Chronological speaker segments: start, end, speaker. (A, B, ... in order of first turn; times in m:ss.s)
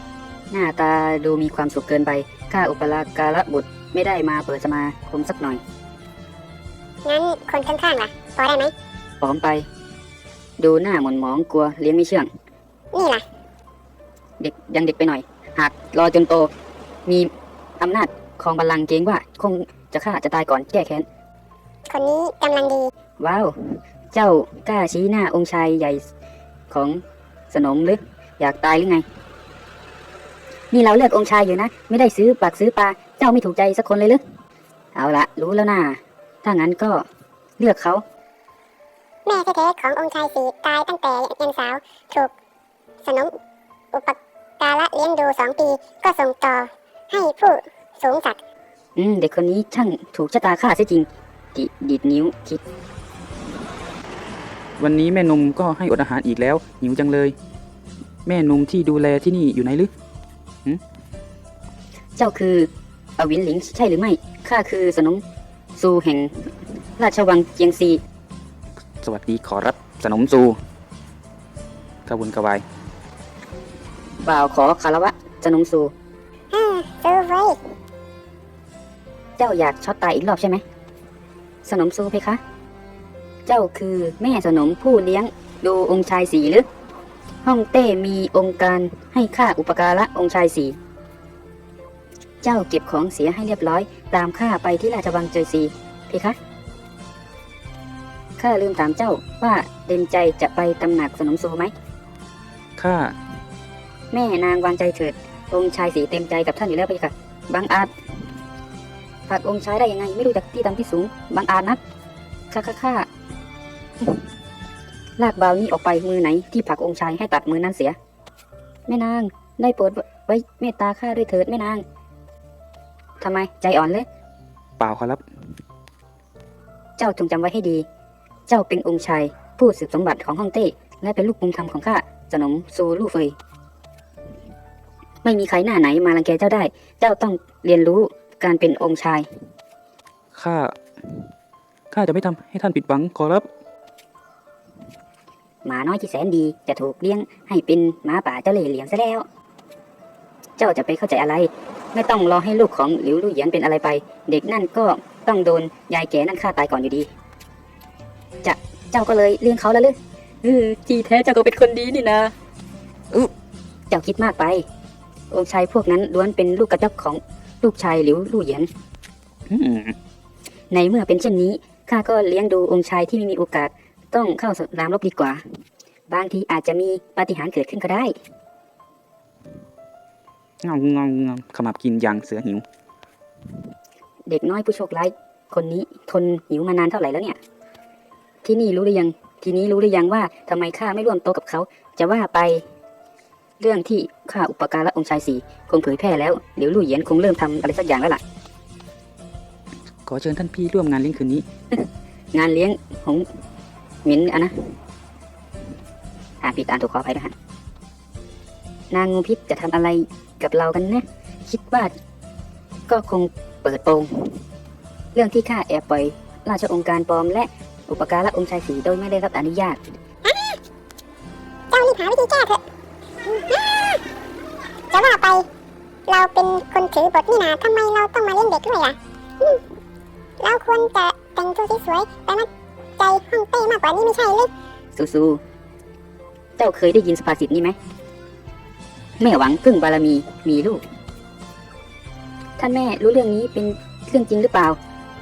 0:00.5-0:05.6 A
0:07.0-0:08.7 B
0:09.2-0:09.7 A
0:10.6-0:12.3 A
0:12.9-0:13.2 B
0:14.4-0:16.5 A
0:17.0-0:21.0 A
0:21.9-0:22.9 B
0:23.2-0:26.0 A
0:26.7-0:29.0 A
0:30.7-0:34.2 A
0:35.0-0:37.0 A
0:37.6-0:38.0 A
0:39.2-0:42.3 B
0:43.0-0:43.3 B
0:43.9-0:48.4 B
0:49.0-0:52.6 A
0:54.8-0:57.4 C
0:58.2-0:59.9 C
1:02.2-1:05.2 A
1:05.8-1:08.0 A
1:09.0-1:10.6 C
1:12.0-1:12.6 C
1:14.2-1:15.9 A
1:16.5-1:17.7 B
1:19.4-1:20.6 A
1:21.6-1:22.4 A
1:23.4-1:26.7 A
1:27.4-1:30.8 A
1:32.4-1:36.4 A
1:38.4-1:41.7 A
1:42.8-1:43.2 C
1:44.1-1:47.9 A
1:49.3-1:51.8 A
1:52.5-1:53.1 A
1:55.2-1:58.0 A
1:58.9-2:01.8 A
2:03.2-2:04.1 A
2:04.8-2:05.2 C
2:07.0-2:07.8 A
2:08.5-2:13.3 A
2:15.2-2:19.3 A
2:20.3-2:21.2 C
2:21.9-2:23.5 C
2:25.6-2:29.2 A
2:30.6-2:37.1 A
2:38.4-2:42.3 A
2:43.9-2:44.6 A
2:45.3-2:48.7 A
2:49.5-2:50.0 C
2:50.7-2:55.4 A
2:56.1-2:58.2 A
3:00.6-3:02.6 C
3:04.3-3:07.4 A
3:08.4-3:12.6 A
3:13.6-3:18.2 A
3:20.1-3:21.4 C
3:21.7-3:23.2 A
3:24.0-3:24.5 A
3:26.4-3:27.3 A
3:28.9-3:31.9 A
3:32.9-3:34.4 A
3:35.1-3:39.9 A
3:40.2-3:40.6 B
3:41.7-3:42.6 B
3:43.2-3:44.0 B
3:44.9-3:45.5 B
3:46.1-3:49.6 B
3:50.4-3:54.5 B
3:54.9-3:55.4 A
3:56.6-3:57.8 A
3:59.2-4:00.8 A
4:02.6-4:04.8 A